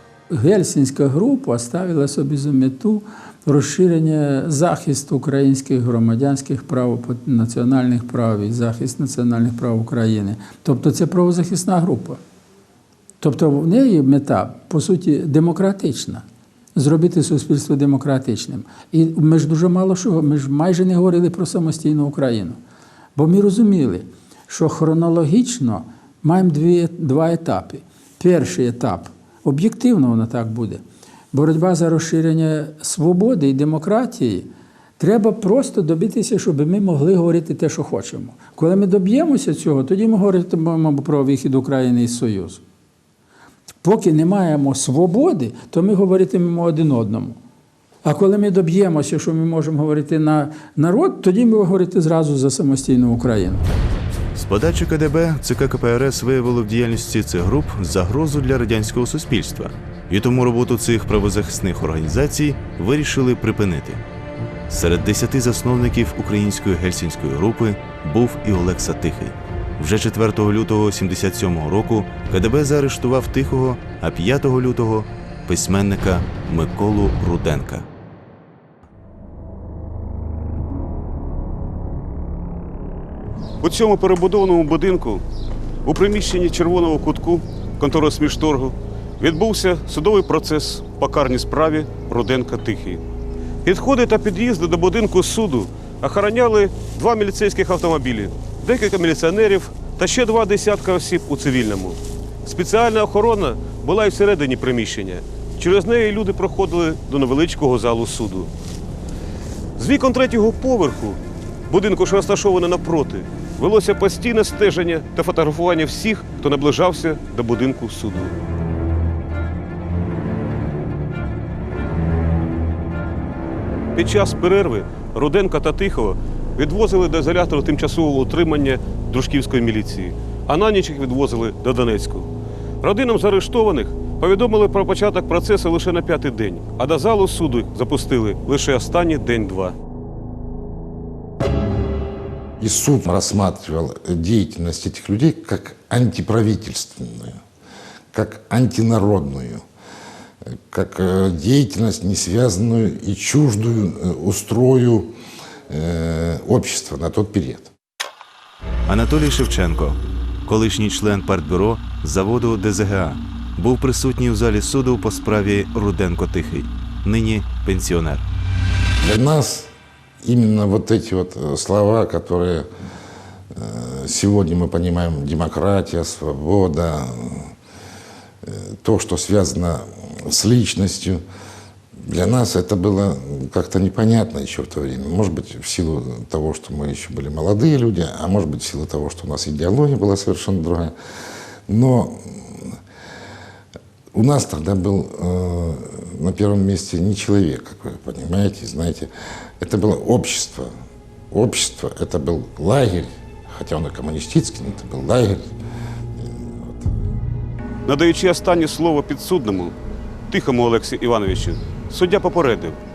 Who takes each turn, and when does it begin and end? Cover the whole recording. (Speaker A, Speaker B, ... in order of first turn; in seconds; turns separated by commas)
Speaker A: 0.3-12.2, Speaker A: 13.2-16.2, Speaker A: 16.8-22.6, Speaker A: 23.2-30.8, Speaker A: 31.3-42.6, Speaker A: 43.8-47.4, Speaker A: 48.0-53.7, Speaker B: 54.4-64.0, Speaker B: 64.7-77.9, Speaker C: 83.6-85.2, Speaker C: 85.8-93.0, Speaker C: 93.6-108.5, Speaker C: 109.8-118.3, Speaker C: 124.0-139.8, Speaker D: 142.6-147.4, Speaker D: 148.1-149.6, Speaker D: 150.7-155.1, Speaker D: 155.7-157.7, Speaker B: 158.9-168.2, Speaker D: 169.0-169.7, Speaker D: 170.2-172.7, Speaker D: 173.6-177.5, Speaker D: 178.4-181.2, Speaker D: 182.1-190.9, Speaker D: 191.7-192.7, Speaker D: 194.1-199.1, Speaker D: 199.6-200.7, Speaker D: 201.3-205.5, Speaker E: 207.9-209.7, Speaker C: 208.0-208.4, Speaker E: 210.3-212.8